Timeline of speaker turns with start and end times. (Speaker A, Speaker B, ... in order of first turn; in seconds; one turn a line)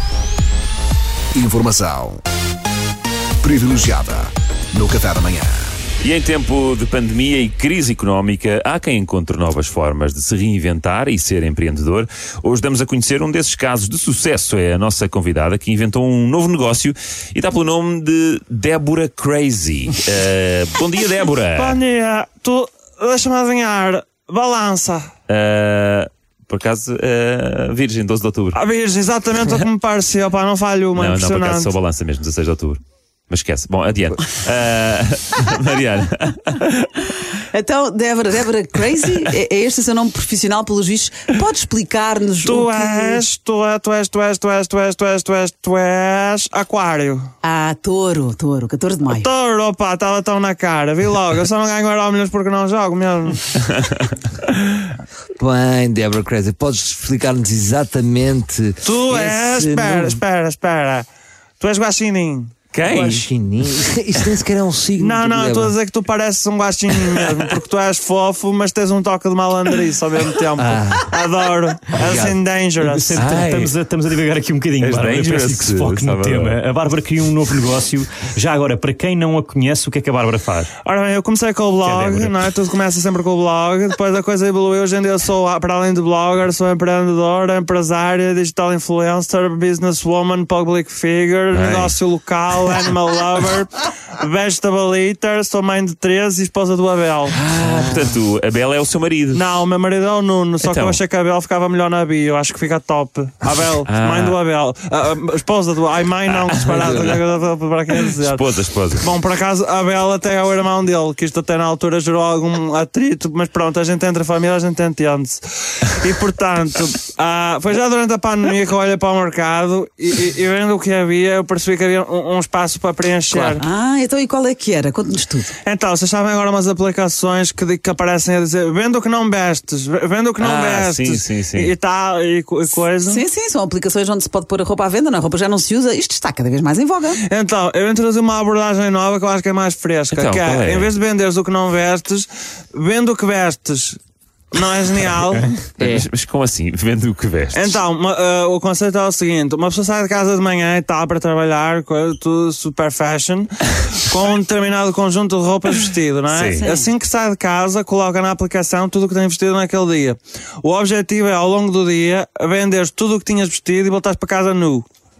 Speaker A: 1.3-2.2
Speaker A: 3.4-5.7
Speaker B: 6.0-21.8
Speaker C: 21.6-25.1
Speaker B: 25.3-28.6
Speaker C: 28.5-31.7
Speaker B: 30.9-37.1
Speaker D: 37.5-43.2
Speaker C: 42.4-47.3
Speaker D: 47.4-49.3
Speaker C: 49.1-53.4
Speaker E: 55.4-60.2
Speaker C: 58.8-61.0
Speaker C: 61.6-62.5
Speaker B: 62.7-63.2
Speaker E: 62.9-65.7
Speaker C: 65.0-73.2
Speaker E: 70.6-71.1
Speaker E: 71.9-72.4
Speaker F: 72.8-80.7
Speaker B: 73.1-73.7
Speaker B: 74.8-76.6
Speaker C: 80.8-97.4
Speaker F: 81.8-82.3
Speaker B: 91.5-92.0
Speaker B: 97.3-99.4
Speaker E: 97.6-98.1
Speaker C: 99.3-108.4
Speaker B: 100.6-101.0
Speaker B: 103.9-104.4
Speaker B: 106.8-107.2
Speaker B: 108.2-109.1
Speaker C: 109.0-123.6
Speaker D: 123.3-125.5
Speaker C: 125.6-133.2
Speaker B: 130.4-131.7
Speaker D: 132.8-137.2
Speaker C: 137.2-144.0
Speaker B: 140.1-140.9
Speaker C: 144.5-145.6
Speaker B: 145.8-147.8
Speaker C: 147.5-164.8
Speaker B: 156.3-156.7
Speaker D: 156.6-156.9